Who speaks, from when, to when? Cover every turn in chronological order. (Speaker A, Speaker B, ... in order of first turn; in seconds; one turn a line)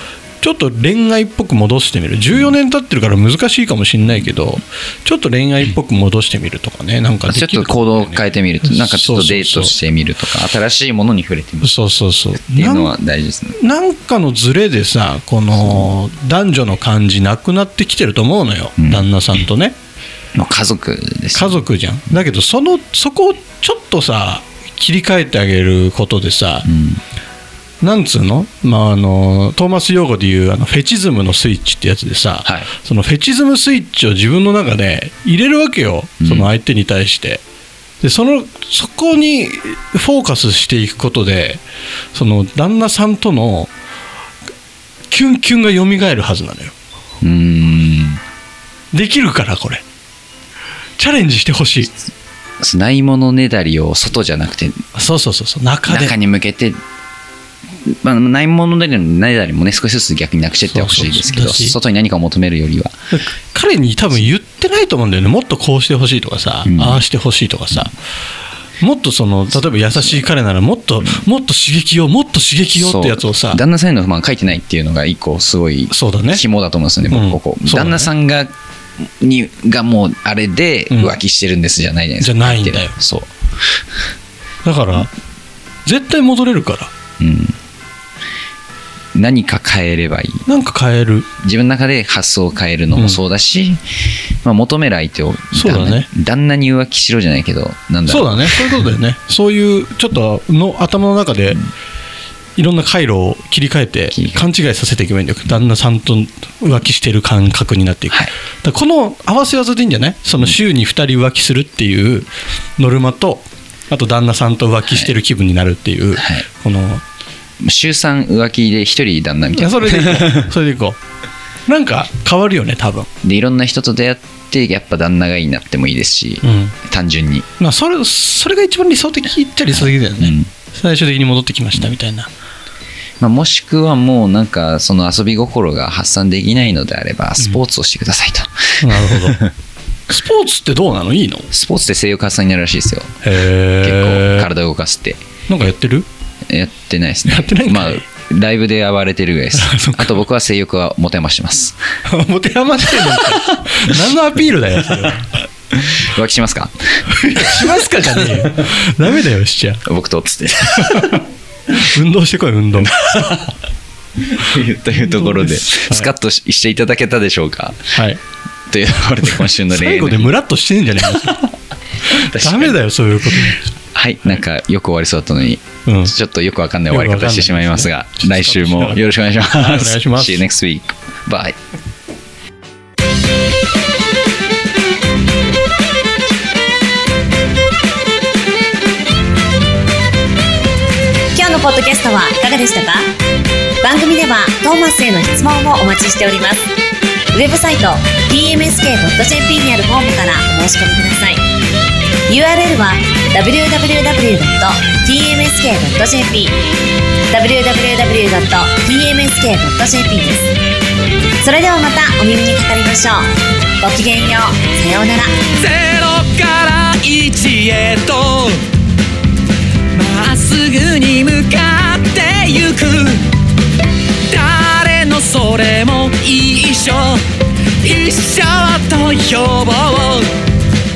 Speaker A: 0.4-9.7
Speaker B: 7.3-11.7
Speaker A: 11.6-12.9
Speaker B: 12.5-13.6
Speaker A: 13.6-19.7
Speaker B: 18.8-19.1
Speaker B: 20.3-21.6
Speaker A: 21.3-26.7
Speaker B: 26.6-27.0
Speaker A: 27.8-37.4
Speaker B: 32.4-32.7
Speaker B: 36.2-36.5
Speaker A: 38.0-41.6
Speaker A: 42.1-43.7
Speaker A: 45.1-46.7
Speaker B: 47.2-48.2
Speaker A: 48.9-49.8
Speaker A: 51.0-51.9
Speaker B: 52.6-54.8
Speaker A: 55.0-56.1
Speaker B: 55.9-56.8
Speaker B: 57.9-62.9
Speaker A: 60.7-61.8
Speaker A: 63.1-67.9
Speaker B: 66.6-67.0
Speaker A: 68.8-73.6
Speaker B: 69.9-70.2
Speaker B: 72.8-78.5
Speaker A: 75.9-76.4
Speaker A: 77.1-78.1
Speaker B: 79.2-83.3
Speaker A: 80.9-81.2
Speaker A: 82.2-83.0
Speaker A: 84.6-85.1
Speaker A: 85.8-86.9
Speaker B: 87.2-87.6
Speaker B: 89.1-90.4
Speaker A: 90.5-91.3
Speaker B: 91.4-93.8
Speaker A: 92.9-93.2
Speaker B: 94.4-98.7
Speaker A: 95.5-96.1
Speaker A: 98.1-101.6
Speaker A: 102.6-117.0
Speaker B: 104.1-104.5
Speaker B: 114.9-115.1
Speaker B: 116.2-116.4
Speaker B: 117.6-120.3
Speaker A: 119.6-121.0
Speaker A: 121.7-123.1
Speaker B: 123.2-127.5
Speaker A: 126.4-126.7
Speaker A: 127.6-132.3
Speaker B: 129.7-130.5
Speaker B: 133.2-139.5
Speaker A: 138.8-139.4
Speaker A: 140.1-141.5
Speaker B: 141.5-143.2
Speaker A: 143.2-144.5
Speaker B: 143.8-145.2
Speaker A: 145.5-146.1
Speaker B: 146.5-151.8
Speaker A: 147.3-148.0
Speaker A: 149.6-150.2
Speaker A: 152.1-155.2
Speaker B: 153.1-153.3
Speaker B: 155.7-156.7
Speaker A: 157.1-159.8
Speaker B: 159.8-161.2
Speaker A: 160.8-161.1
Speaker A: 161.8-163.1
Speaker B: 163.0-163.4
Speaker B: 164.3-167.9
Speaker A: 165.0-166.1
Speaker A: 167.9-168.2
Speaker B: 168.7-170.3
Speaker A: 169.7-171.5
Speaker A: 172.1-173.7
Speaker B: 172.1-172.8
Speaker B: 173.5-181.6
Speaker A: 175.8-176.1
Speaker A: 176.9-180.5
Speaker C: 191.3-193.0
Speaker C: 193.8-196.6
Speaker C: 197.3-201.4
Speaker C: 202.3-206.5
Speaker C: 207.3-210.5
Speaker C: 211.4-213.3
Speaker C: 213.8-215.3
Speaker D: 215.6-218.7
Speaker D: 219.9-223.4
Speaker D: 224.2-230.4